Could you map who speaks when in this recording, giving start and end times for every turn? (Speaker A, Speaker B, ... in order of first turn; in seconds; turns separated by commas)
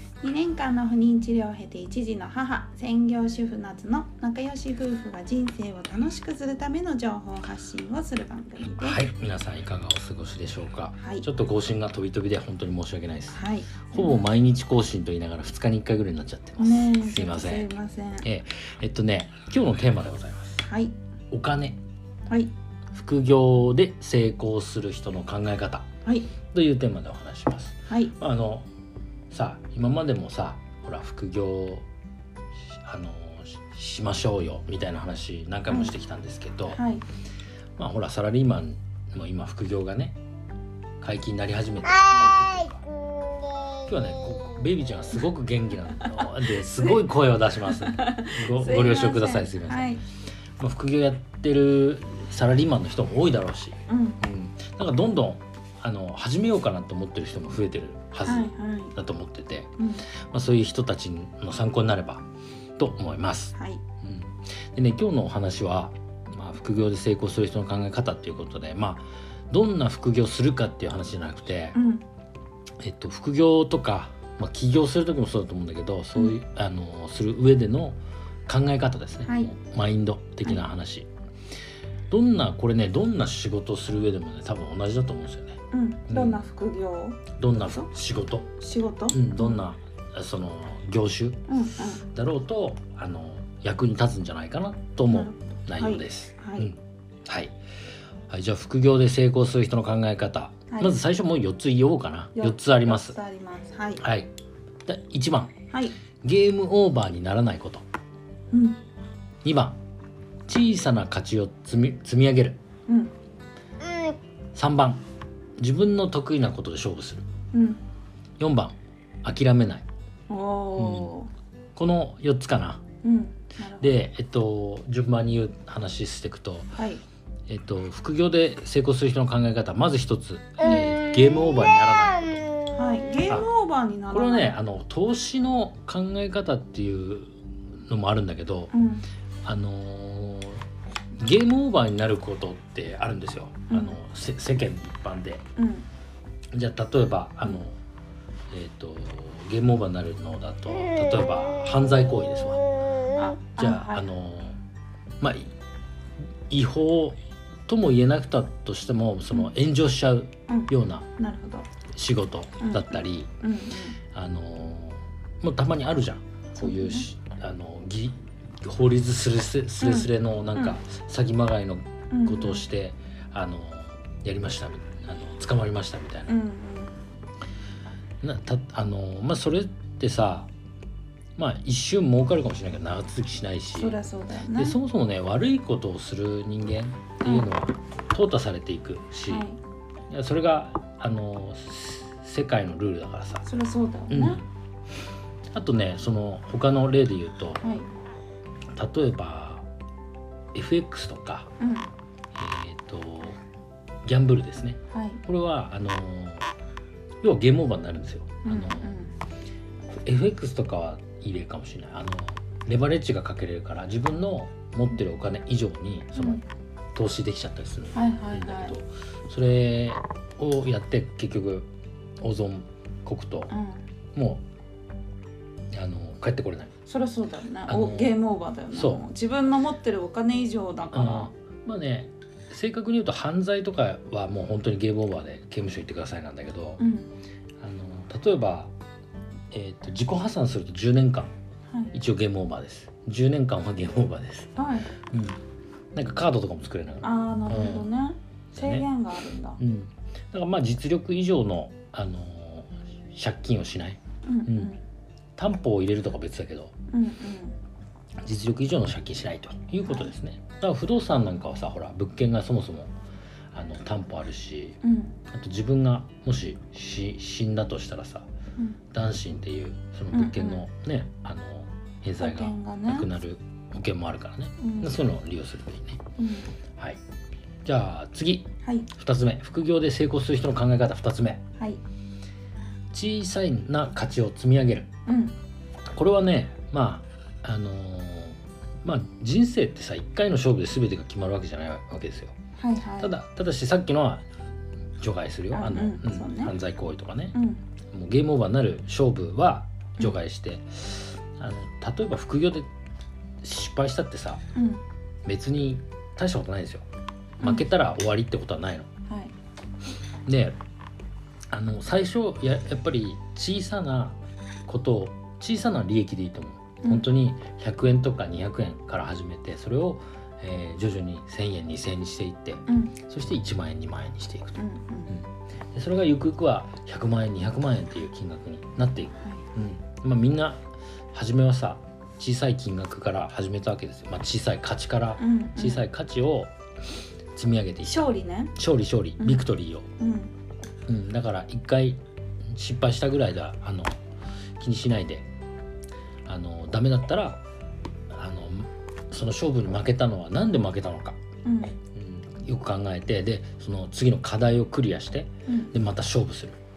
Speaker A: 0.2-9.0, Speaker B: 8.8-13.4, Speaker A: 11.0-11.2, Speaker A: 13.3-14.2, Speaker B: 13.9-17.7, Speaker A: 16.6-18.3, Speaker B: 18.2-20.6, Speaker A: 20.6-20.9, Speaker B: 21.3-21.8, Speaker B: 22.9-25.9, Speaker A: 26.0-26.3, Speaker B: 26.5-28.7, Speaker A: 27.9-28.1, Speaker B: 29.3-31.8, Speaker B: 32.8-36.8, Speaker A: 35.7-35.9, Speaker A: 36.7-37.0, Speaker B: 37.8-40.2, Speaker B: 41.0-42.8, Speaker B: 43.8-50.0, Speaker A: 46.7-47.0, Speaker A: 47.7-50.0, Speaker B: 50.6-62.2, Speaker A: 53.9-54.2, Speaker A: 58.2-58.9, Speaker A: 59.8-60.0, Speaker B: 62.8-71.8, Speaker A: 63.5-63.8, Speaker A: 71.7-72.0, Speaker B: 72.8-81.1, Speaker A: 79.2-79.5, Speaker B: 82.1-86.4, Speaker A: 85.7-87.9, Speaker B: 87.4-88.5, Speaker A: 88.6-89.6, Speaker B: 89.1-91.4, Speaker A: 91.5-92.0, Speaker B: 92.1-97.5, Speaker A: 95.1-96.7, Speaker B: 98.3-103.2, Speaker A: 100.7-101.0, Speaker A: 102.3-104.0, Speaker B: 104.0-104.3, Speaker B: 104.8-105.5, Speaker A: 105.7-106.0, Speaker B: 106.2-107.8, Speaker A: 108.5-108.8, Speaker B: 109.4-109.8, Speaker B: 110.5-112.6, Speaker A: 112.9-113.1, Speaker B: 114.5-115.0, Speaker B: 115.6-117.2, Speaker A: 117.5-117.8, Speaker B: 118.4-119.8, Speaker A: 120.3-121.3, Speaker B: 120.8-121.1, Speaker B: 121.8-122.8, Speaker A: 123.0-123.9, Speaker B: 123.8-126.7, Speaker A: 126.7-127.0, Speaker B: 127.5-132.6, Speaker A: 132.7-134.6, Speaker B: 134.1-137.3, Speaker B: 137.9-138.7, Speaker A: 138.7-139.0, Speaker B: 139.4-140.6, Speaker B: 141.2-145.4, Speaker A: 143.7-144.0, Speaker A: 145.6-145.8, Speaker B: 146.5-147.8, Speaker B: 148.5-152.7, Speaker A: 153.1-154.1, Speaker B: 153.6-154.6, Speaker B: 155.2-155.5, Speaker B: 156.5-161.1, Speaker A: 160.5-161.7, Speaker B: 161.9-163.3, Speaker A: 162.6-164.0, Speaker B: 164.1-176.3, Speaker A: 166.5-167.1, Speaker A: 169.8-170.8, Speaker A: 172.1-172.7, Speaker A: 176.3-177.0, Speaker B: 178.2-180.5, Speaker B: 181.3-184.0, Speaker A: 183.7-184.8, Speaker B: 184.5-189.5, Speaker A: 187.2-187.5, Speaker A: 189.3-189.6, Speaker B: 190.1-193.4, Speaker A: 193.4-194.4, Speaker B: 194.1-194.4, Speaker B: 195.5-197.6, Speaker A: 197.6-197.9, Speaker B: 198.7-199.7, Speaker B: 200.5-201.5, Speaker A: 201.6-201.9, Speaker B: 202.4-203.4, Speaker B: 204.0-206.5, Speaker A: 204.9-205.2, Speaker B: 207.2-208.9, Speaker A: 208.4-209.1, Speaker B: 210.0-216.4, Speaker A: 216.1-216.4, Speaker B: 216.9-221.7, Speaker A: 217.9-218.8, Speaker B: 222.2-223.5, Speaker A: 223.5-223.8, Speaker B: 224.1-224.4, Speaker B: 225.7-226.7, Speaker A: 226.8-231.3, Speaker B: 227.7-228.2, Speaker B: 228.7-229.0, Speaker B: 230.9-236.8, Speaker A: 236.8-237.1, Speaker B: 237.6-238.7, Speaker B: 239.5-241.3, Speaker B: 241.9-244.5, Speaker A: 244.6-244.9, Speaker B: 245.1-245.4, Speaker B: 245.9-247.9, Speaker A: 247.0-249.6, Speaker B: 248.5-248.8, Speaker B: 249.6-254.7, Speaker A: 254.2-254.8, Speaker B: 255.4-256.7, Speaker A: 256.9-257.6, Speaker B: 258.2-262.9, Speaker A: 259.9-260.1, Speaker B: 263.5-264.8, Speaker A: 264.8-265.2, Speaker B: 265.3-268.3, Speaker B: 268.9-276.0, Speaker A: 270.1-270.6, Speaker A: 272.2-273.1, Speaker A: 274.6-275.0, Speaker A: 276.2-276.5, Speaker B: 277.6-281.4, Speaker A: 278.6-278.9, Speaker B: 282.9-284.9, Speaker A: 285.1-285.3, Speaker B: 285.9-292.3, Speaker A: 292.6-293.1, Speaker B: 293.0-294.2, Speaker B: 295.0-297.4, Speaker A: 295.5-296.5, Speaker A: 297.3-297.6, Speaker B: 297.9-302.7, Speaker B: 303.4-304.4, Speaker A: 304.5-304.8, Speaker B: 305.2-306.9, Speaker A: 307.4-307.6, Speaker B: 307.4-308.9, Speaker A: 309.1-309.3, Speaker B: 310.2-310.6, Speaker B: 311.5-330.6, Speaker A: 316.8-317.1, Speaker A: 322.7-322.9, Speaker A: 324.6-325.2, Speaker A: 329.2-329.4, Speaker B: 331.1-336.5, Speaker A: 335.2-335.9, Speaker B: 337.3-339.9, Speaker A: 337.8-338.5, Speaker A: 340.0-340.3, Speaker B: 340.9-342.0, Speaker B: 342.5-343.9, Speaker B: 344.6-345.3, Speaker B: 346.2-347.4, Speaker B: 348.1-351.2, Speaker A: 351.4-351.7, Speaker B: 351.9-356.6, Speaker A: 355.5-355.7